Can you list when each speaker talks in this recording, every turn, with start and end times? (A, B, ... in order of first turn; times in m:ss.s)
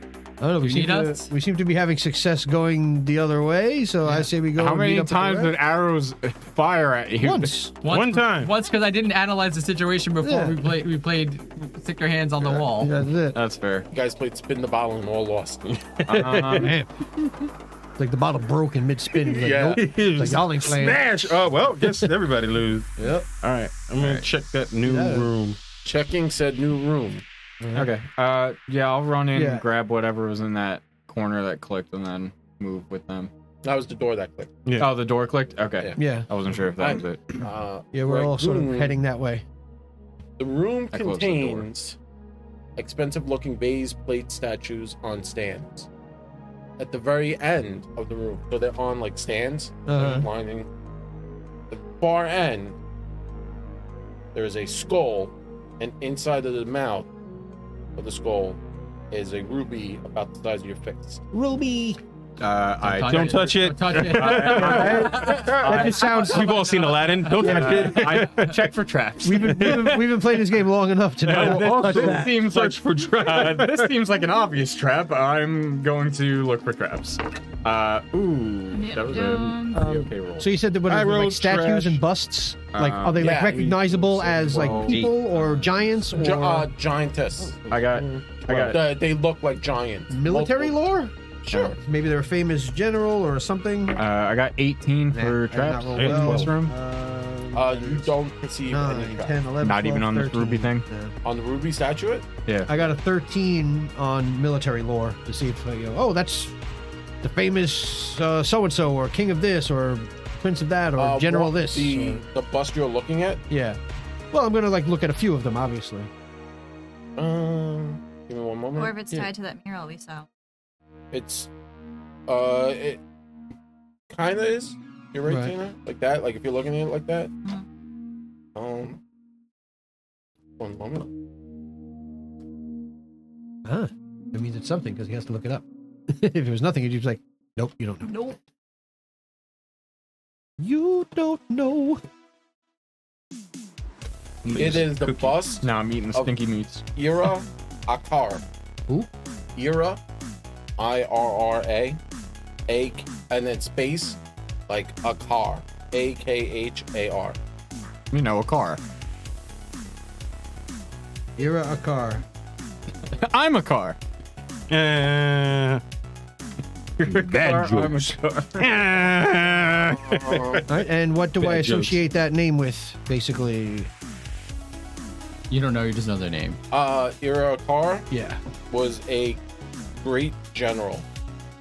0:00.4-0:05.5 A
0:00.6-0:01.3 B
0:04.5-0:07.5 C
0:07.2-0:07.7 A
0:07.8-0:13.0 B
0:07.8-0:08.5 D
0:10.2-0:10.6 A
0:12.8-0:13.4 A
0:13.3-0:13.9 C
0:13.9-0:15.8 E
0:15.7-0:16.7 D
0:16.1-0:16.7 C
0:16.4-0:16.9 A
0:18.0-0:22.1 A
0:19.2-0:19.8 E
0:19.7-0:25.6 D
0:23.0-0:23.2 A
0:24.8-0:25.3 A
0:25.8-0:27.2 E
0:27.6-0:27.9 A
0:27.7-0:33.3 C
0:29.3-0:29.6 A
0:33.6-0:34.5 E
0:34.6-0:34.9 D
0:34.8-0:37.2 C
0:36.0-0:36.3 A
0:36.8-0:39.0 E
0:37.9-0:39.4 A
0:40.4-0:42.0 E
0:40.9-0:41.7 C
0:42.8-0:45.9 E
0:46.8-0:50.7 E
0:49.9-0:50.3 A
0:51.7-0:52.8 E
0:54.3-0:57.1 E
0:58.0-0:58.6 E
0:59.1-1:01.2 E
1:01.3-1:02.0 A
1:02.4-1:06.2 C
1:02.8-1:07.5 B
1:03.0-1:08.5 D
1:04.4-1:06.7 A
1:07.3-1:10.1 C
1:07.4-1:08.0 A
1:09.2-1:12.3 A
1:09.4-1:10.0 D
1:11.2-1:20.5 C
1:11.2-1:14.0 D
1:18.7-1:19.9 F
1:19.7-1:26.7 A
1:20.8-1:22.0 D
1:22.7-1:26.3 C
1:23.2-1:23.7 E
1:24.8-1:25.2 D
1:26.1-1:30.8 E
1:27.7-1:28.8 C
1:30.1-1:31.1 A
1:31.4-1:31.8 E
1:31.8-1:34.0 A
1:34.0-1:36.7 C
1:35.1-1:38.1 A
1:35.9-1:36.5 D
1:37.5-1:39.4 E
1:38.7-1:41.1 A
1:39.6-1:40.8 C
1:41.2-1:42.2 E
1:42.6-1:46.5 A
1:47.2-1:52.2 A
1:51.0-1:53.4 E
1:53.5-1:53.8 A
1:54.3-1:56.1 A
1:57.2-1:58.9 E
1:58.7-2:00.3 F
2:01.1-2:01.5 E
2:02.3-2:03.0 E
2:04.1-2:07.3 E
2:05.2-2:05.5 A
2:08.5-2:09.0 E
2:10.6-2:11.1 E
2:13.6-2:18.4 A
2:20.6-2:22.0 A
2:24.4-2:25.4 D
2:24.6-2:26.4 E
2:25.6-2:26.8 C
2:26.9-2:28.4 E
2:29.6-2:30.0 E
2:30.8-2:32.0 E
2:32.7-2:34.2 E
2:34.7-2:37.4 E
2:38.1-2:38.8 C
2:41.4-2:42.2 A
2:43.1-2:44.0 C
2:44.7-2:45.8 D
2:47.0-2:50.8 D
2:47.0-2:48.7 C
2:49.9-2:50.6 E
2:50.7-2:53.9 A
2:51.4-2:52.0 D
2:55.5-2:56.6 B
2:56.7-2:58.1 E
2:58.1-2:58.4 A
2:58.7-2:59.4 E
3:00.0-3:01.0 E